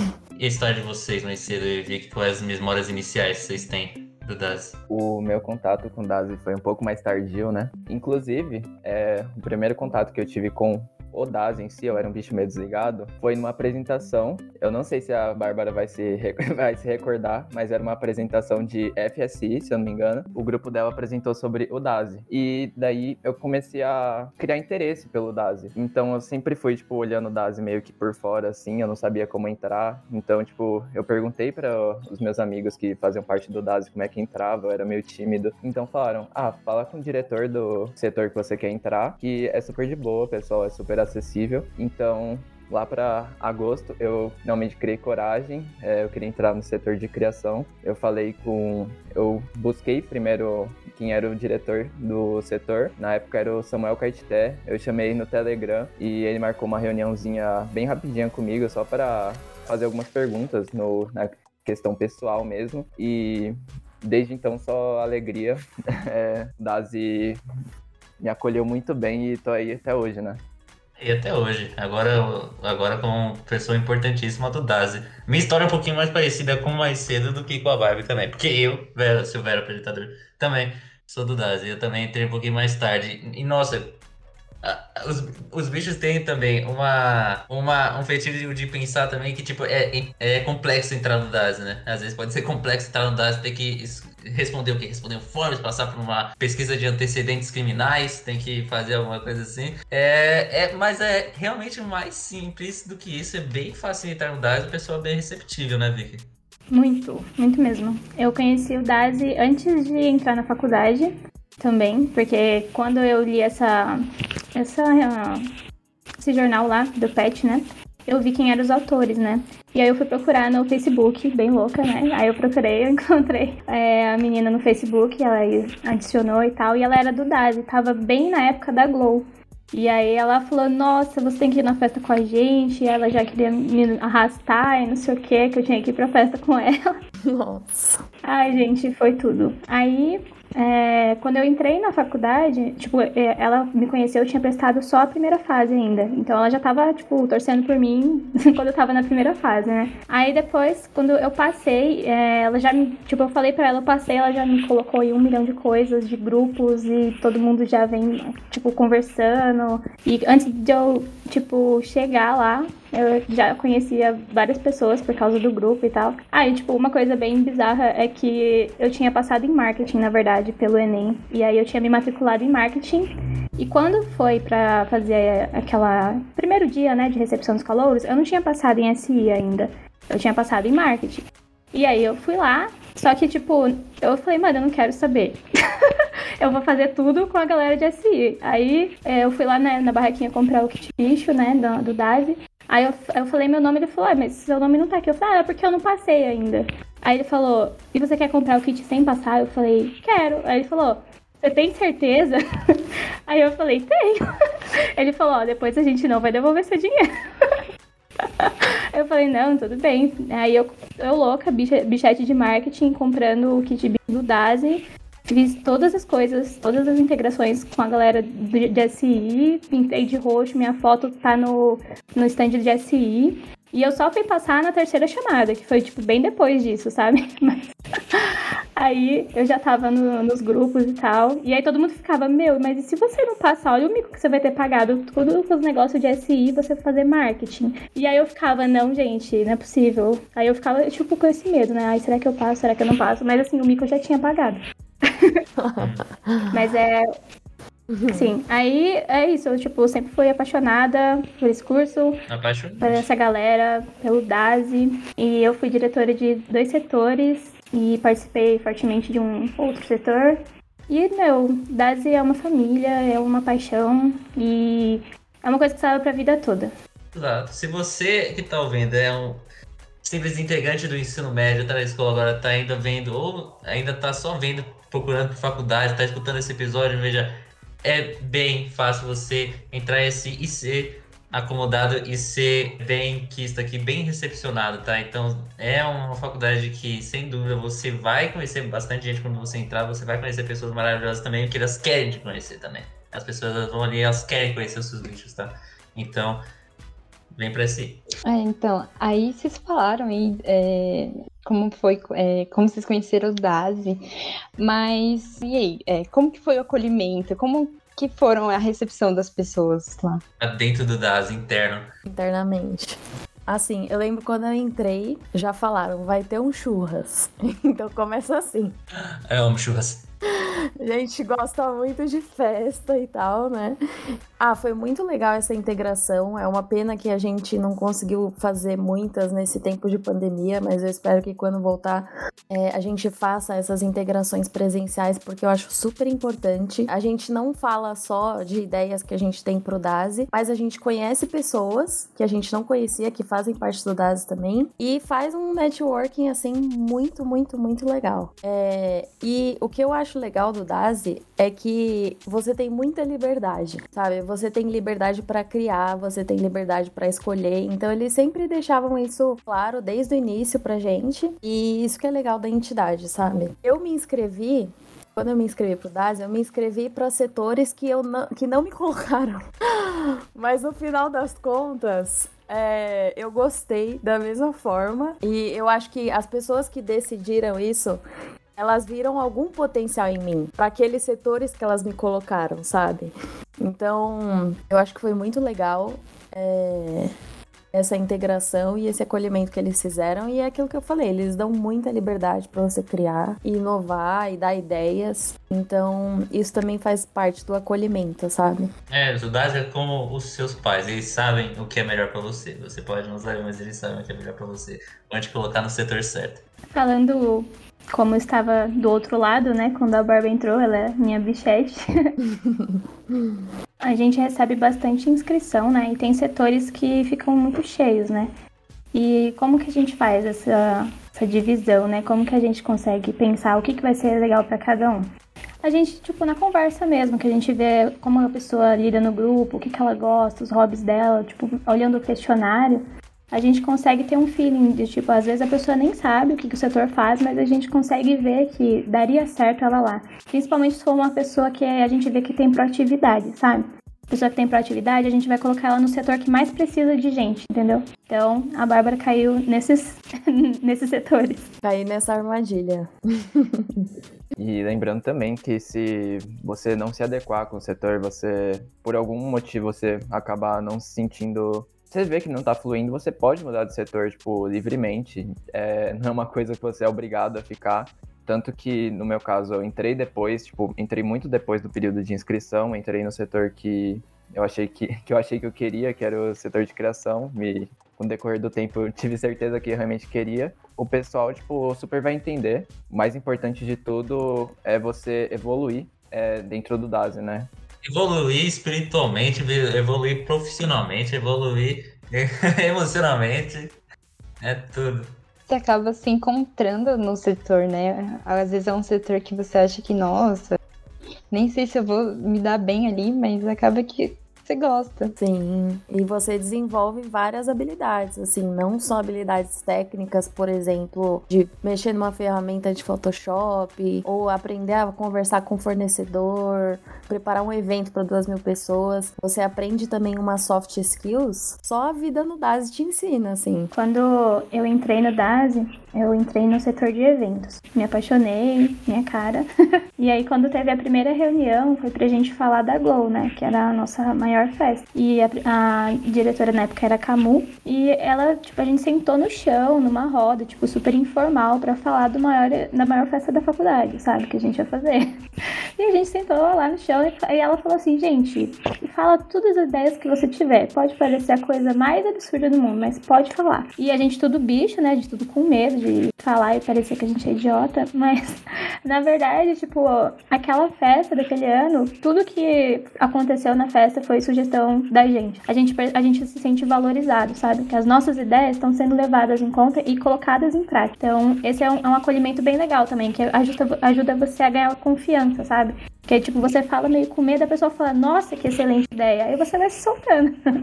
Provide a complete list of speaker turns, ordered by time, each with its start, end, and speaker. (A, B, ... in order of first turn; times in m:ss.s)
0:00.4-0:04.8 A
0:04.9-1:07.4 B
1:08.2-1:10.4 B
1:11.0-1:24.0 A
1:24.6-1:46.3 A
1:46.7-1:54.0 C
1:54.6-1:55.4 C
1:56.2-2:16.8 C
2:17.3-2:18.0 D
2:18.2-3:05.4 C
3:06.4-3:24.2 C
3:25.0-3:27.0 C
3:28.2-4:05.4 C
4:05.6-4:06.7 D
4:05.8-4:06.0 A
4:06.5-4:07.0 C
4:07.9-4:08.3 D
4:08.1-4:12.2 C
4:12.3-4:13.0 A
4:12.8-4:20.4 C
4:20.9-4:26.7 C
4:27.1-4:29.4 A
4:30.0-4:56.4 A
4:57.3-4:58.0 A
4:58.2-5:04.0 E
5:04.6-5:10.2 E
5:10.4-5:11.9 A
5:12.1-5:18.8 D
5:19.3-5:20.1 A
5:20.3-5:23.8 D
5:24.4-6:18.0 D
6:18.6-6:27.1 D
6:27.7-6:38.7 D
6:38.9-6:46.4 A
6:46.7-6:52.2 C
6:52.3-6:53.5 D
6:53.8-6:58.3 C
6:58.9-7:05.1 C
7:05.6-7:31.4 C
7:31.6-7:33.9 D
7:34.4-8:07.5 B
8:07.8-8:13.8 A
8:14.4-8:15.2 A
8:15.5-8:20.6 E
8:21.3-8:25.1 E
8:25.2-8:43.7 D
8:43.7-8:49.5 C
8:50.0-9:05.0 C
9:05.8-9:40.3 C